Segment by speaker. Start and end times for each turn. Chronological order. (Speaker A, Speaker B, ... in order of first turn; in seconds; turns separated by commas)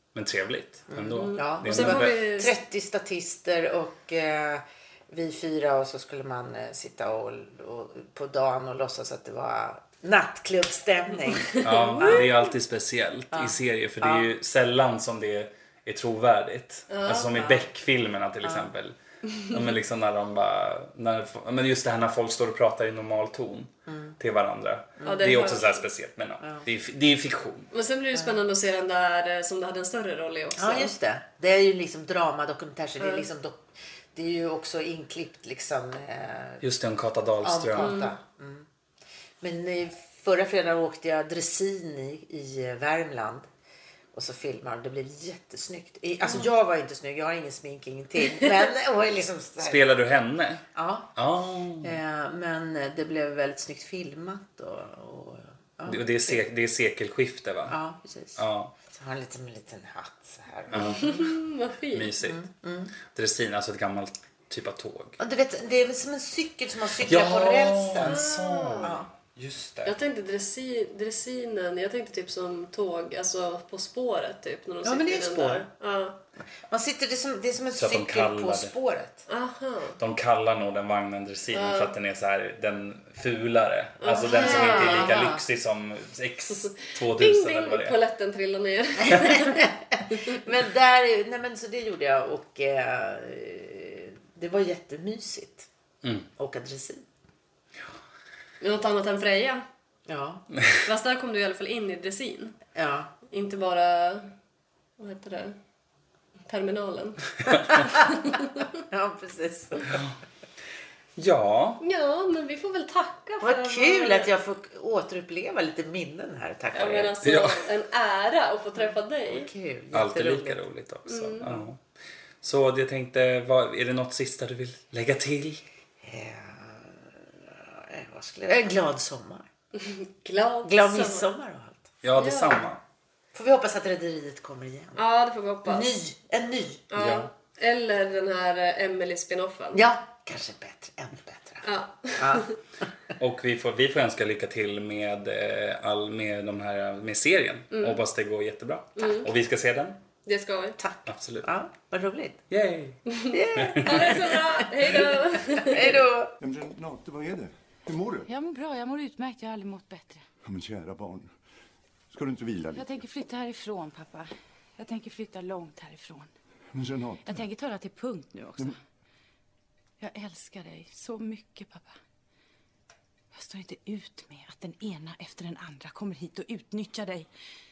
Speaker A: 0.1-2.2, Speaker B: 0.9-12.2, Speaker C: 1.2-2.6, Speaker C: 11.3-12.4, Speaker A: 11.6-19.0, Speaker B: 13.3-14.3, Speaker C: 16.9-17.4, Speaker B: 17.4-17.6, Speaker A: 19.5-27.7, Speaker B: 23.9-24.1, Speaker B: 25.0-25.4, Speaker C: 25.1-25.8, Speaker B: 26.4-26.7, Speaker C: 27.7-30.9, Speaker B: 30.6-36.6, Speaker A: 36.6-38.0, Speaker B: 37.4-38.7, Speaker C: 37.8-38.1, Speaker B: 39.4-43.5, Speaker B: 44.1-49.9, Speaker A: 49.6-50.6, Speaker B: 50.7-51.2, Speaker A: 51.1-51.9, Speaker B: 51.8-56.4, Speaker A: 55.9-57.8, Speaker B: 57.7-61.2, Speaker A: 58.4-58.7, Speaker A: 60.7-61.2, Speaker C: 61.0-62.1, Speaker A: 61.9-62.4, Speaker B: 62.2-63.0, Speaker A: 63.1-65.2, Speaker B: 65.2-68.3, Speaker A: 67.0-69.9, Speaker C: 68.0-69.0, Speaker B: 68.8-69.1, Speaker C: 69.8-76.2, Speaker B: 74.8-75.7, Speaker B: 76.7-79.3, Speaker A: 77.8-78.7, Speaker C: 79.3-80.0, Speaker A: 80.0-88.0, Speaker C: 81.5-81.9, Speaker C: 84.0-85.2, Speaker B: 84.1-85.4, Speaker C: 86.5-90.4, Speaker B: 89.0-95.7, Speaker B: 96.4-97.0, Speaker C: 98.6-99.6, Speaker B: 100.1-100.4, Speaker C: 100.8-102.6, Speaker B: 102.8-103.1, Speaker C: 103.3-104.3, Speaker C: 105.0-105.5, Speaker C: 106.5-108.7, Speaker B: 107.5-108.1, Speaker B: 108.9-110.0, Speaker A: 109.9-110.2, Speaker A: 111.2-111.8, Speaker C: 111.8-114.3, Speaker B: 113.4-117.2, Speaker C: 116.7-119.5, Speaker A: 117.2-117.6, Speaker B: 118.8-120.6, Speaker A: 119.9-121.8, Speaker C: 121.1-121.5, Speaker A: 122.4-125.6, Speaker B: 126.0-129.5, Speaker C: 129.8-131.3, Speaker B: 130.7-131.9, Speaker A: 132.0-132.8, Speaker C: 132.2-132.7, Speaker B: 133.3-135.0, Speaker C: 135.0-135.9, Speaker B: 135.7-136.9, Speaker C: 136.9-139.8, Speaker A: 137.0-137.3, Speaker B: 139.7-141.7, Speaker C: 141.6-142.6, Speaker B: 142.2-142.5, Speaker A: 143.2-150.0, Speaker C: 147.7-148.0, Speaker C: 149.0-149.3, Speaker C: 150.3-150.8, Speaker B: 150.8-152.4, Speaker A: 151.1-151.5, Speaker A: 152.5-153.0, Speaker C: 153.1-156.1, Speaker B: 153.3-156.4, Speaker A: 153.6-154.2, Speaker D: 156.4-158.3, Speaker E: 158.3-160.2, Speaker D: 160.4-161.3, Speaker D: 162.1-162.9, Speaker E: 162.7-166.3, Speaker D: 166.7-167.4, Speaker E: 167.3-168.8, Speaker E: 170.0-172.0, Speaker E: 173.3-177.3